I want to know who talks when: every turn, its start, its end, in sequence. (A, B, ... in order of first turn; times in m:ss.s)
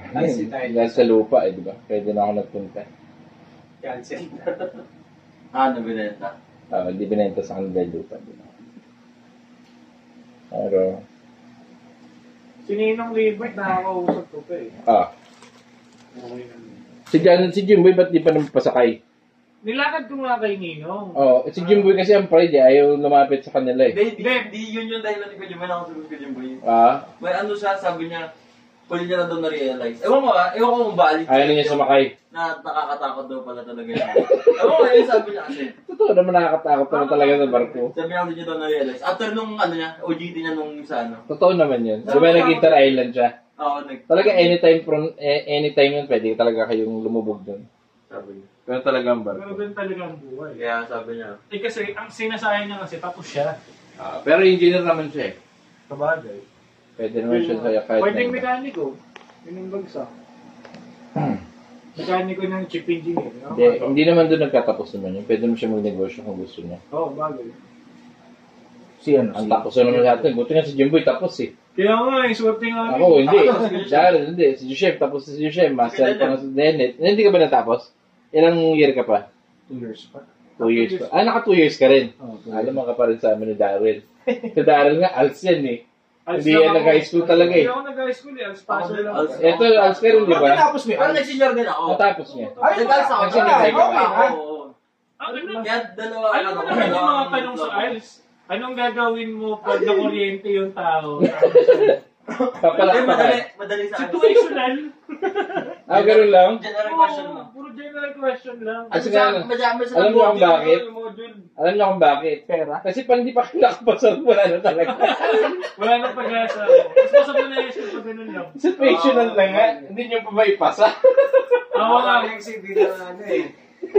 0:00.1-0:01.1 A
0:00.1-0:02.8 B
0:03.8-0:04.8 A
0:05.5-0:06.3 C
0:06.7-0:08.5 B
0:10.5-0:11.0 B
0:12.6-0:14.7 D
0:16.1-0:16.8 D
0:17.1-0:19.0 B
0:19.6-0:21.8 D
0:21.1-0:24.0 B
0:23.9-0:26.6 C
0:24.2-0:24.5 D
0:26.6-0:27.0 B
0:27.2-0:28.3 C
0:28.9-0:35.7 C
0:31.3-0:32.1 B
0:34.3-0:34.8 B
0:35.8-0:37.9 B
0:36.9-0:37.9 D
0:37.9-0:41.2 C
0:41.3-0:43.3 B
0:42.0-0:42.9 D
0:43.6-0:44.6 C
0:44.1-0:47.6 B
0:48.1-0:48.5 C
0:48.6-0:49.6 B
0:49.3-0:50.6 D
0:50.6-0:51.4 C
0:51.5-0:53.6 D
0:54.0-0:55.4 B
0:55.9-0:56.4 D
0:57.0-0:58.5 B
0:57.2-1:00.1 D
1:01.9-1:04.0 D
1:03.5-1:06.8 B
1:06.9-1:07.5 D
1:09.0-1:09.6 E
1:09.3-1:11.5 B
1:11.7-1:13.7 D
1:12.8-1:19.2 B
1:13.2-1:14.2 C
1:15.8-1:16.4 C
1:19.7-1:20.2 E
1:20.6-1:25.8 B
1:20.6-1:21.2 D
1:22.2-1:22.7 E
1:26.3-1:29.7 D
1:26.3-1:27.7 B
1:28.7-1:32.0 C
1:29.3-1:30.6 B
1:30.1-1:31.4 E
1:31.9-1:34.2 B
1:32.2-1:32.8 D
1:32.6-1:34.4 E
1:32.6-1:34.7 C
1:35.2-1:42.0 D
1:35.5-1:37.9 C
1:41.2-1:42.0 B
1:42.3-1:44.6 C
1:42.6-1:43.4 B
1:43.9-1:45.8 D
1:45.9-1:46.6 B
1:45.9-1:47.5 C
1:46.8-1:49.0 D
1:48.9-1:50.9 C
1:48.9-1:50.8 B
1:50.8-1:51.5 D
1:51.6-1:55.8 B
1:52.5-1:52.8 E
1:54.8-1:58.6 D
1:58.5-2:01.7 B
1:58.8-1:59.4 C
1:59.3-1:59.9 A
2:01.7-2:02.5 D
2:01.7-2:03.5 A